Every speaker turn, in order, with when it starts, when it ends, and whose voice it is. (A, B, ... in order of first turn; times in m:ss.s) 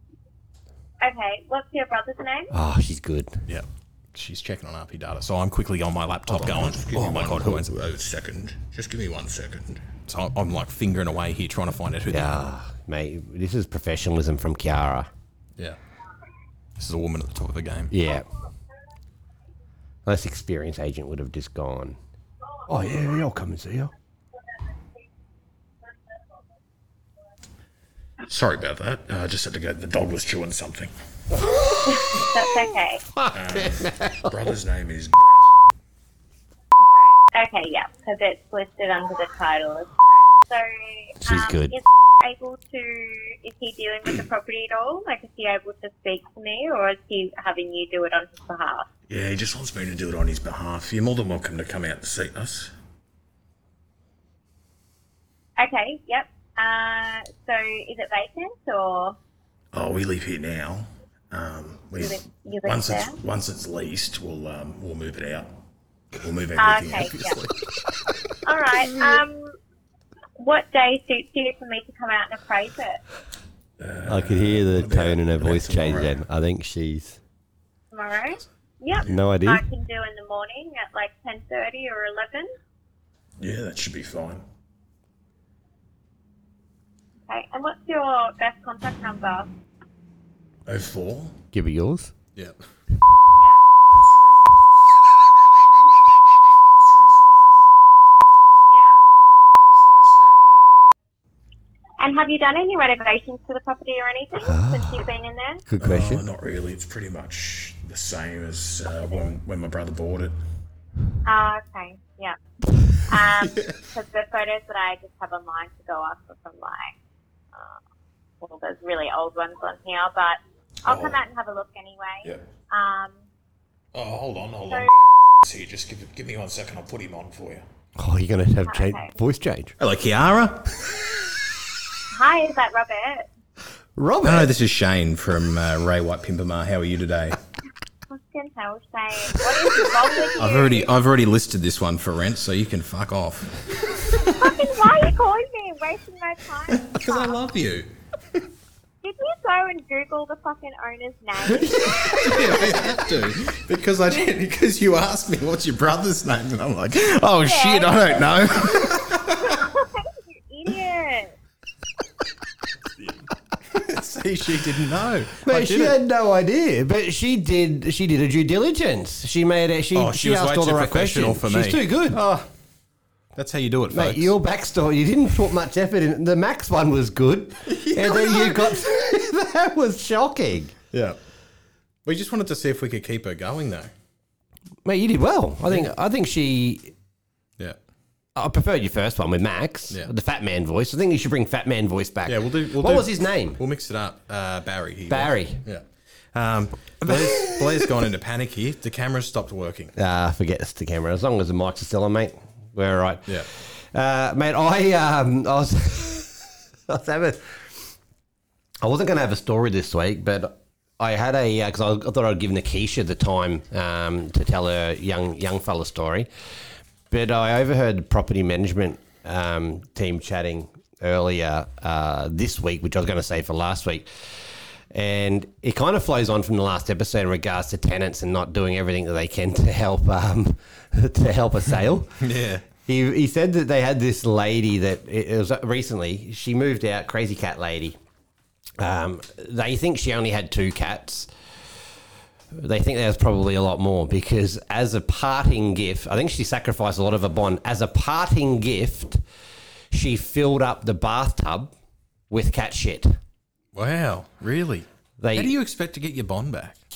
0:01.0-0:02.5 A
0:02.5-0:03.4 B
0:03.5-0:12.4 C
0:06.3-0:09.8 D
0:07.1-0:07.6 B
0:12.1-0:15.1 B
0:16.8-0:17.9 C
0:17.9-0:18.3 B
0:20.0-0:22.0 B
0:22.7-0:23.9 B
0:28.3-0:30.9 D
0:28.9-0:30.1 C
0:31.8-0:33.0 A
0:33.1-0:34.5 B
0:33.3-0:35.5 D
0:37.3-0:39.9 A
0:40.5-0:48.9 A
0:41.2-0:41.8 B
0:49.1-0:52.7 D
0:49.3-0:50.8 C
0:51.9-0:52.4 C
0:55.6-0:59.2 A
0:59.7-1:05.5 D
1:02.0-1:03.2 A
1:04.1-1:04.7 C
1:06.1-1:07.4 D
1:06.4-1:07.5 C
1:06.6-1:07.4 A
1:08.4-1:09.5 A
1:10.4-1:13.0 A
1:13.8-1:16.1 D
1:14.0-1:17.2 B
1:17.9-1:22.5 A
1:19.0-1:19.6 B
1:23.4-1:24.4 D
1:23.6-1:24.2 C
1:27.3-1:29.5 A
1:30.7-1:31.4 D
1:31.5-1:32.1 B
1:36.8-1:37.3 C
1:42.0-1:45.6 A
1:44.4-1:45.0 B
1:45.7-1:46.2 B
1:45.8-1:50.3 D
1:51.2-1:52.4 A
1:53.1-1:56.9 A
1:57.5-1:57.8 A
1:58.4-2:03.2 A
2:00.9-2:01.2 C
2:03.9-2:04.8 C
2:05.4-2:07.6 C
2:05.5-2:07.6 D
2:08.0-2:09.7 B
2:08.7-2:09.1 A
2:09.8-2:10.8 C
2:12.1-2:13.3 A
2:14.0-2:14.5 B
2:14.2-2:17.4 C
2:18.1-2:20.9 A
2:20.4-2:24.4 C
2:24.2-2:27.4 A
2:26.7-2:27.9 C
2:29.0-2:33.1 A
2:31.6-2:39.6 C
2:37.4-2:41.3 A
2:43.7-2:46.0 C
2:45.4-2:52.4 B
2:49.9-2:51.8 C
2:53.4-2:54.3 C
2:53.9-3:00.7 B
2:57.6-2:58.8 C
3:00.9-3:01.2 C
3:02.0-3:03.9 C
3:04.8-3:06.9 B
3:08.3-3:13.6 B
3:12.2-3:15.8 C
3:15.1-3:15.6 B
3:16.3-3:19.9 C
3:17.0-3:17.7 B
3:20.0-3:27.6 B
3:28.8-3:36.3 B
3:37.1-3:44.3 B
3:44.9-3:52.2 B
3:52.2-3:52.6 C
3:52.8-3:58.0 B
3:58.8-4:01.3 B
4:02.5-4:09.2 B
4:09.9-4:11.7 B
4:12.3-4:13.2 B
4:13.7-4:16.8 C
4:15.2-4:15.5 B